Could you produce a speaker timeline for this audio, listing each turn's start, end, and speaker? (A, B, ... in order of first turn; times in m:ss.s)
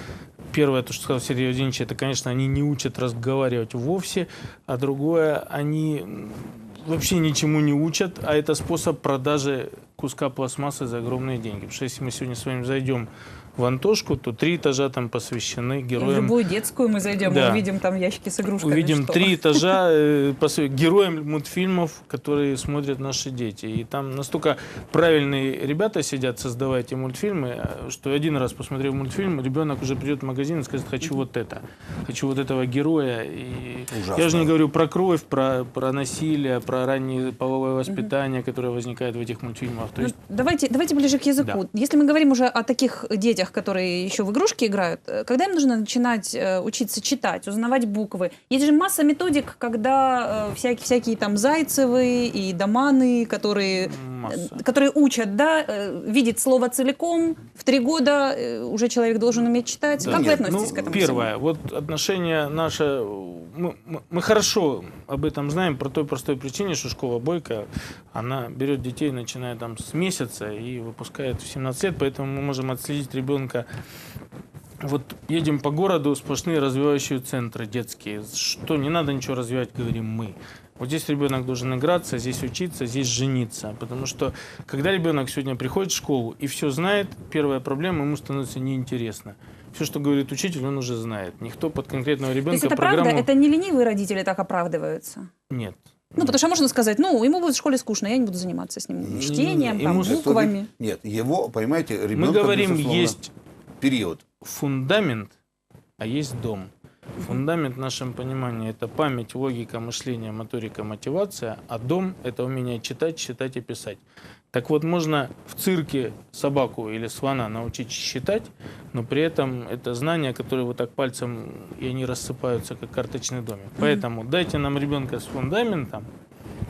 0:00.5-0:16.3 A
0:16.0-0:19.6 B
0:17.2-0:17.7 A
0:18.6-0:40.1 A
0:33.9-0:34.5 C
0:40.0-1:01.3 B
0:53.8-0:54.6 A
1:00.0-1:01.0 C
1:00.0-1:13.7 A
1:14.8-1:33.3 A
1:32.5-1:35.3 B
1:35.5-1:36.4 A
1:36.2-1:40.7 B
1:39.0-1:39.3 C
1:39.1-1:40.3 A
1:39.9-1:43.2 C
1:42.2-1:43.3 A
1:43.8-1:44.2 C
1:44.4-1:45.3 A
1:46.0-2:06.1 A